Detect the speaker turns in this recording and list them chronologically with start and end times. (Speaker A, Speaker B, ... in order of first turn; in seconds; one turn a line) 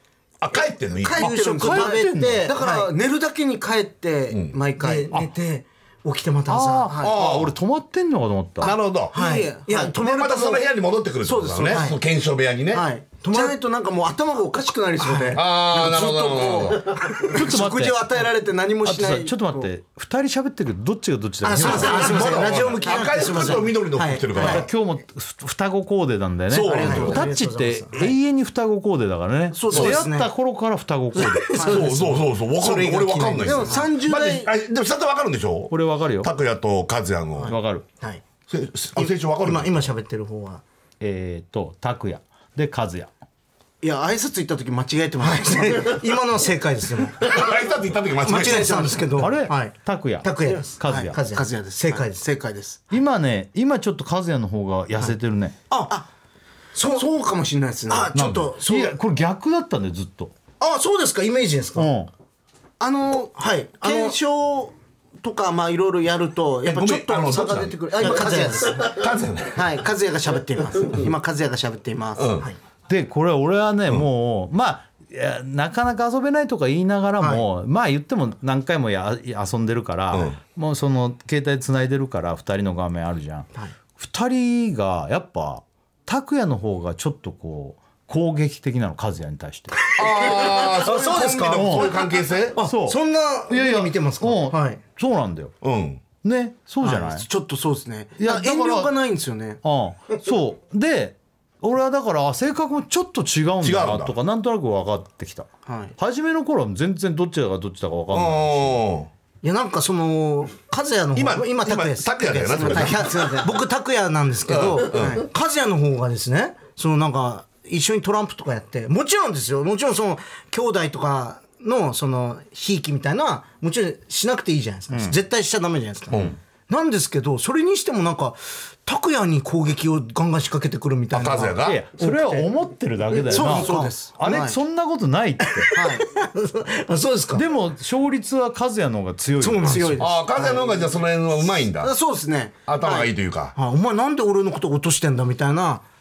Speaker A: 0.4-1.3
Speaker B: 1.0-5.1
Speaker C: 1.1-2.9
Speaker D: 1.2-2.5
Speaker A: 4.3-4.6
Speaker C: 4.8-6.9
Speaker D: 6.5-8.7
Speaker B: 6.9-7.2
Speaker A: 7.0-7.5
Speaker A: 8.6-9.2
Speaker B: 9.1-10.6
Speaker C: 9.1-10.6
Speaker A: 9.9-12.9
Speaker B: 11.2-12.0
Speaker C: 11.7-12.0
Speaker B: 12.7-19.7
Speaker C: 13.2-13.6
Speaker C: 15.0-15.4
Speaker A: 15.3-17.1
Speaker D: 17.3-18.1
Speaker D: 18.8-22.2
Speaker C: 21.4-24.6
Speaker B: 21.6-23.6
Speaker A: 21.6-24.7
Speaker D: 24.4-31.6
Speaker A: 26.5-27.3
Speaker B: 26.7-27.2
Speaker C: 26.7-28.2
Speaker B: 29.5-30.0
Speaker C: 29.7-30.3
Speaker A: 29.7-30.0
Speaker C: 31.1-33.9
Speaker B: 31.6-31.9
Speaker A: 31.6-37.6
Speaker B: 33.4-34.5
Speaker D: 35.7-36.3
Speaker C: 37.4-38.2
Speaker D: 37.5-37.9
Speaker A: 38.5-39.9
Speaker C: 39.0-40.6
Speaker D: 41.0-43.1
Speaker B: 43.8-46.1
Speaker C: 45.2-47.3
Speaker A: 47.2-49.0
Speaker C: 48.2-52.2
Speaker B: 48.3-49.3
Speaker D: 49.2-51.2
Speaker B: 50.5-52.8
Speaker D: 52.9-55.6
Speaker C: 55.7-56.0
Speaker C: 56.8-57.1
Speaker B: 56.9-58.1
Speaker C: 57.9-59.0
Speaker D: 58.1-60.3
Speaker A: 58.2-58.4
Speaker C: 60.6-61.9
Speaker D: 61.8-62.1
Speaker B: 62.8-69.0
Speaker C: 63.4-64.2
Speaker A: 66.7-68.1
Speaker C: 68.0-68.9
Speaker A: 68.8-69.8
Speaker B: 69.5-72.4
Speaker A: 72.2-72.5
Speaker D: 72.9-89.8
Speaker C: 77.2-77.5
Speaker A: 80.1-80.4
Speaker A: 90.0-92.6
Speaker C: 90.2-94.8
Speaker D: 91.5-91.9
Speaker D: 92.6-95.5
Speaker A: 95.6-96.0
Speaker D: 96.2-97.3
Speaker C: 96.8-97.1
Speaker B: 96.9-99.6
Speaker D: 98.2-98.9
Speaker D: 99.6-108.8
Speaker A: 103.6-104.2
Speaker B: 105.7-106.0
Speaker A: 108.1-109.1
Speaker C: 109.4-132.5
Speaker A: 111.2-113.4
Speaker B: 112.5-113.6
Speaker A: 114.5-115.2
Speaker B: 114.9-115.2
Speaker D: 124.9-125.2
Speaker A: 126.1-126.4
Speaker A: 131.1-131.8
Speaker D: 131.6-135.7
Speaker C: 133.2-134.0
Speaker B: 133.3-134.6
Speaker C: 135.6-137.4
Speaker B: 135.7-136.1
Speaker D: 137.3-139.9
Speaker C: 139.4-140.5
Speaker B: 139.6-140.6
Speaker A: 140.0-141.9
Speaker B: 141.8-143.1
Speaker A: 142.7-143.6
Speaker C: 143.6-145.8